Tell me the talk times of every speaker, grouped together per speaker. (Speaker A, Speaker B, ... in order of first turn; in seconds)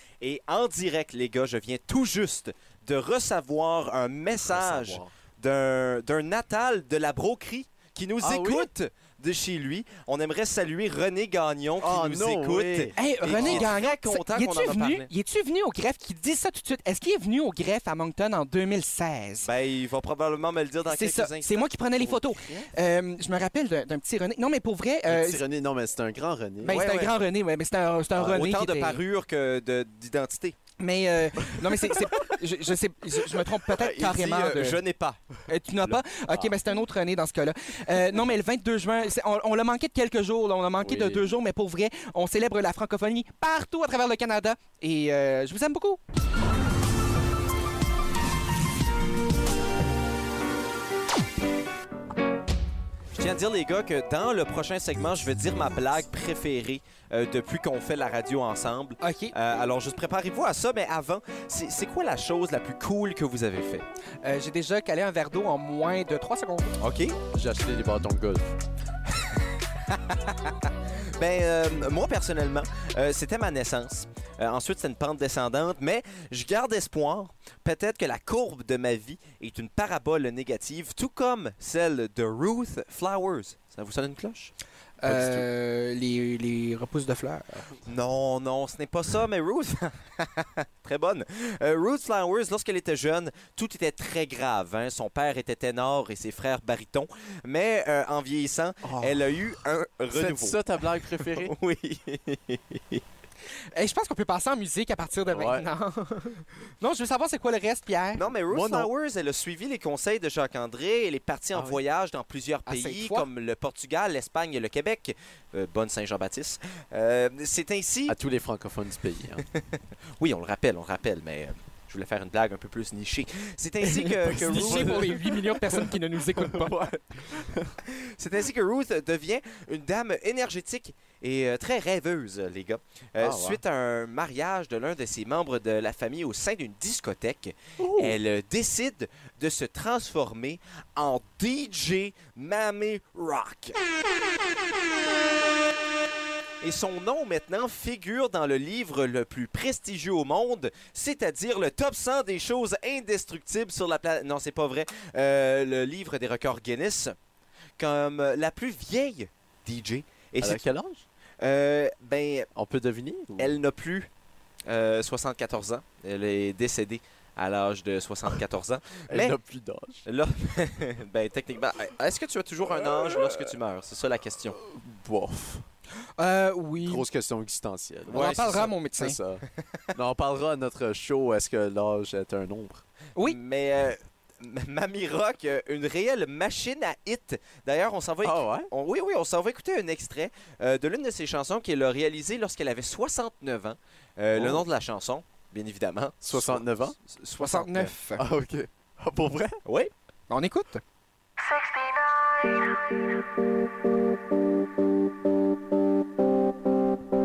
Speaker A: 0.2-15.1, 19.4-22.7, 26.7-27.1, 28.1-30.6, 33.7-35.2, 53.1-63.9, 66.8-67.2, 69.9-70.5, 71.2-84.5, 85.1-85.4, 87.8-100.6, 101.3-103.0, 108.2-118.2, 120.2-125.1, 127.9-143.8, 146.6-157.1, 157.8-160.6, 161.4-162.5, 163.4-164.1, 164.7-169.4, 170.1-174.6, 178.1-178.7, 183.2-197.9, 199.7-199.9
Speaker B: 4.3-5.1, 8.2-8.7, 11.8-13.7, 25.1-26.8, 40.8-41.4, 67.3-68.5, 98.8-99.2, 100.1-101.5, 105.3-105.7, 108.5-108.9, 118.1-119.4, 124.2-127.8, 133.2-133.6, 137.8-138.2, 160.4-161.1, 162.6-163.6, 169.1-170.0, 174.6-175.6, 176.8-182.8, 188.2-188.7, 194.3-194.7, 196.2-196.9, 198.2-199.6
Speaker C: 13.0-19.5, 20.9-25.4, 26.6-29.0, 30.8-34.8, 35.5-46.0, 59.0-59.3, 64.2-66.8, 85.0-87.7, 103.7-108.2, 112.7-113.3, 124.0-126.8, 176.2-177.1, 178.1-179.2, 197.4-198.2, 200.3-200.8